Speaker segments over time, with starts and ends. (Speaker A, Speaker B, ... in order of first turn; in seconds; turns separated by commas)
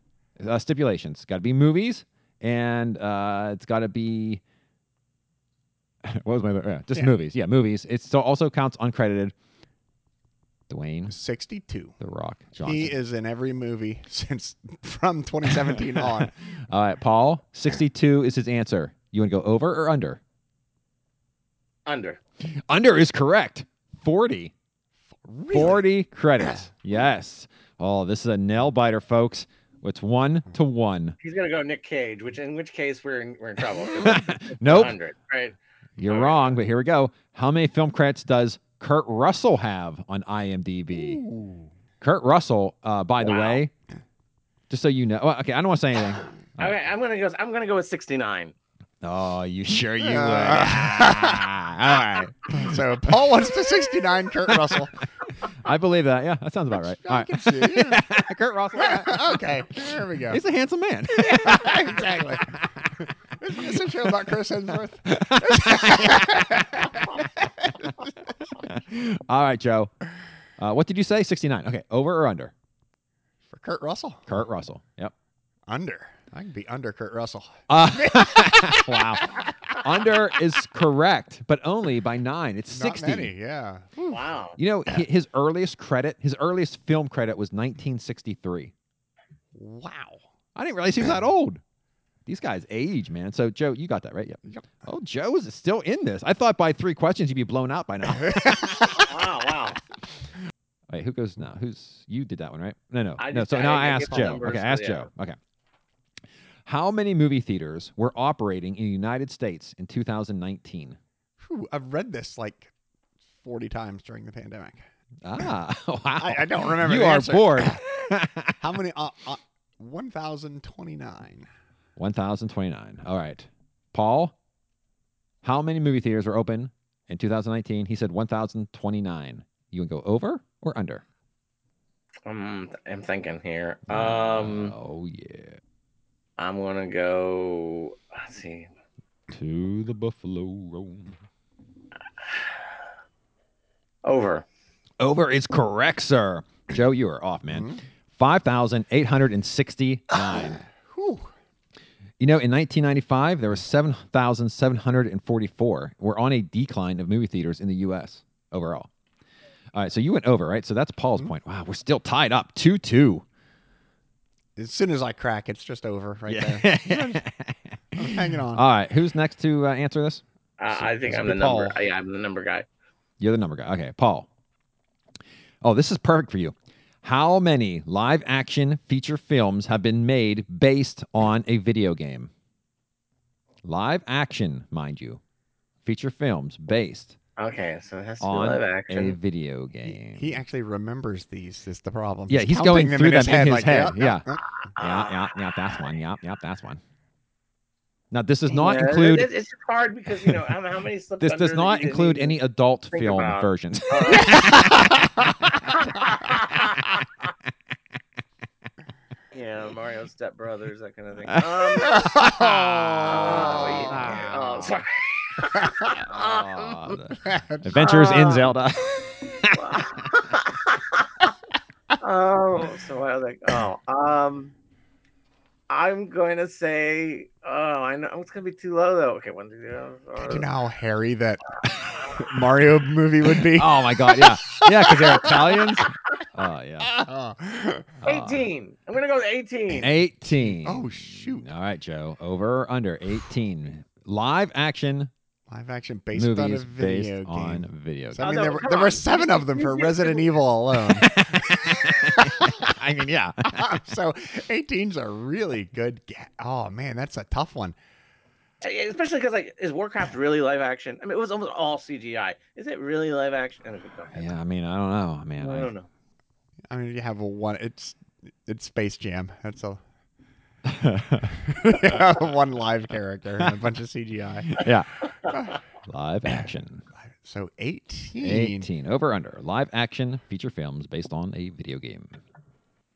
Speaker A: 0.4-4.4, Speaker A: 6.0-9.3, Speaker A: 10.7-11.1, Speaker B: 11.1-11.9, Speaker A: 12.0-13.0, Speaker B: 12.6-16.3, Speaker A: 16.1-20.2, Speaker C: 21.9-22.2, Speaker A: 22.4-24.5, Speaker B: 25.2-25.8, Speaker A: 25.5-31.2, Speaker C: 31.2-36.6, Speaker A: 34.0-35.0, Speaker A: 36.0-41.2, Speaker B: 41.0-41.7, Speaker A: 42.0-43.7, Speaker C: 43.2-43.6, Speaker A: 44.7-46.8, Speaker C: 46.6-48.5, Speaker A: 49.0-53.3, Speaker B: 50.0-51.5, Speaker B: 52.5-55.0, Speaker A: 54.5-54.8, Speaker A: 55.6-59.5, Speaker B: 56.9-58.2, Speaker B: 58.8-60.4, Speaker A: 60.3-62.9, Speaker B: 61.2-68.1, Speaker A: 63.6-63.9, Speaker A: 65.1-66.9, Speaker A: 68.6-69.9, Speaker A: 70.6-72.5, Speaker B: 73.5-74.3, Speaker A: 74.3-75.1, Speaker B: 75.7-79.8, Speaker A: 77.7-83.3, Speaker B: 82.7-84.2, Speaker C: 84.1-84.6, Speaker A: 84.6-88.7, Speaker B: 89.5-90.2, Speaker A: 90.6-91.6, Speaker A: 92.3-99.0, Speaker B: 98.3-98.9, Speaker C: 99.0-99.8, Speaker A: 100.9-105.4, Speaker C: 103.2-105.1, Speaker A: 106.7-111.0, Speaker B: 111.4-112.7, Speaker B: 113.4-114.8, Speaker A: 115.2-118.6, Speaker B: 116.2-117.8, Speaker B: 118.6-121.5, Speaker A: 122.0-124.3, Speaker A: 125.4-131.0, Speaker C: 132.3-134.8, Speaker A: 133.9-135.6, Speaker C: 136.4-138.7, Speaker A: 139.3-141.2, Speaker C: 142.3-142.5, Speaker C: 144.0-144.4, Speaker A: 145.0-150.6, Speaker B: 147.5-147.8, Speaker B: 150.9-151.3, Speaker A: 152.2-158.9, Speaker A: 159.7-163.2, Speaker B: 164.6-167.2, Speaker A: 166.3-171.8, Speaker B: 167.9-168.7, Speaker C: 170.6-172.7, Speaker A: 173.2-174.3, Speaker A: 175.6-182.3, Speaker A: 183.6-185.2, Speaker A: 185.8-187.2, Speaker C: 187.4-189.2, Speaker A: 188.2-190.3, Speaker B: 190.0-194.4, Speaker A: 192.3-196.8, Speaker C: 194.8-195.3, Speaker A: 198.1-199.3, Speaker C: 198.5-202.4, Speaker A: 201.2-205.0, Speaker C: 202.9-204.5, Speaker C: 205.7-207.1, Speaker C: 209.3-212.2, Speaker A: 211.3-214.5, Speaker B: 211.9-214.1, Speaker C: 213.0-217.0, Speaker A: 215.9-219.6, Speaker B: 217.2-218.4, Speaker C: 217.8-218.5, Speaker C: 219.5-221.3, Speaker C: 222.0-224.5, Speaker C: 225.7-230.5, Speaker B: 230.2-231.6, Speaker B: 232.1-235.6, Speaker A: 233.4-236.9, Speaker B: 236.8-238.0, Speaker A: 238.0-238.5, Speaker C: 238.0-239.9, Speaker A: 239.8-245.1, Speaker B: 240.4-241.5, Speaker B: 245.5-252.8, Speaker A: 246.1-248.3, Speaker C: 248.2-250.3, Speaker A: 250.9-253.8, Speaker B: 253.4-257.8, Speaker C: 258.6-264.3, Speaker A: 264.1-265.7, Speaker C: 265.4-265.9, Speaker B: 266.7-269.8, Speaker A: 270.7-272.0, Speaker B: 271.5-274.7, Speaker A: 274.5-274.9, Speaker B: 275.2-275.6, Speaker A: 275.9-276.8, Speaker B: 277.2-278.7, Speaker A: 278.2-282.2